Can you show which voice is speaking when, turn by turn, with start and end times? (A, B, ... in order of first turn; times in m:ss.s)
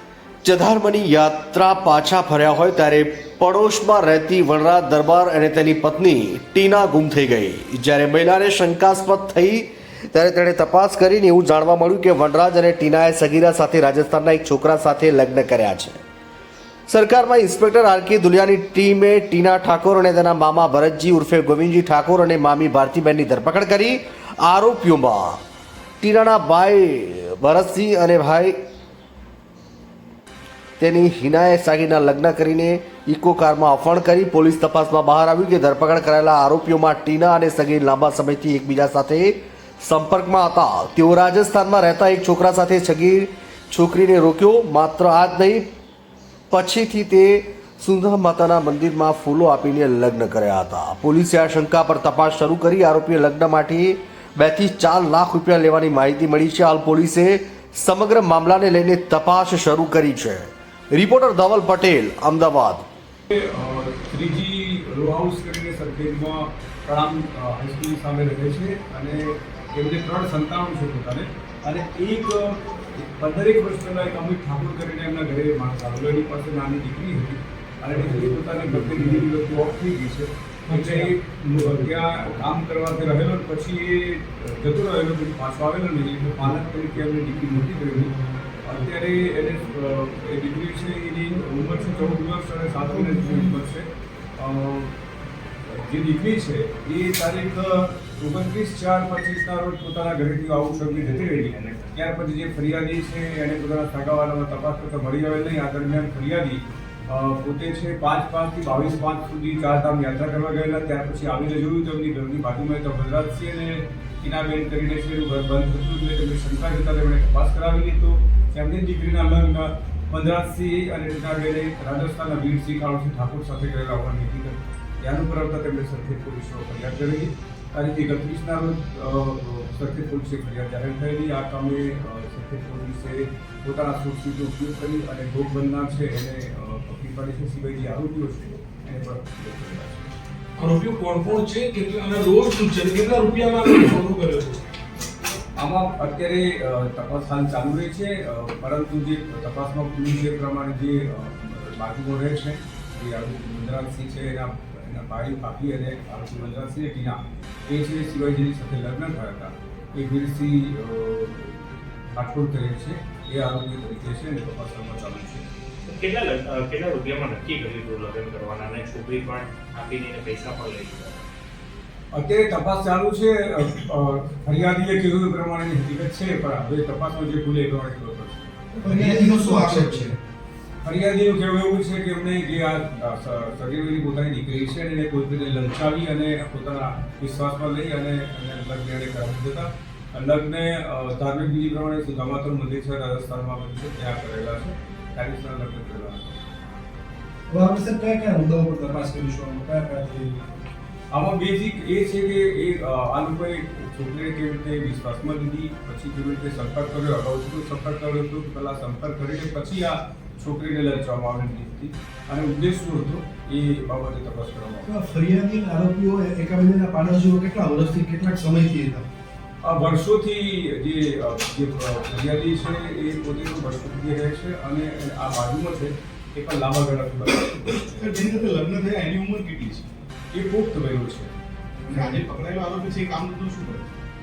0:00.4-0:16.0 A
0:16.9-0:25.4 A
0:26.0-0:28.6 A
0:30.8-0:45.7 A
0:46.5-1:02.8 A
1:03.3-1:34.9 B
1:20.7-1:21.0 C
1:35.6-2:20.1 B
1:41.0-1:41.9 D
2:20.6-2:24.6 E
2:25.6-2:45.5 B
2:45.9-2:51.2 D
2:52.1-2:58.5 B
2:58.7-3:00.2 C
2:58.8-3:00.1 E
3:00.8-3:16.4 B
3:17.5-3:20.4 C
3:21.1-3:34.9 B
3:34.8-3:39.0 C
3:39.6-3:48.1 B
3:47.9-3:49.9 E
3:50.3-3:51.3 B
3:51.9-3:53.9 E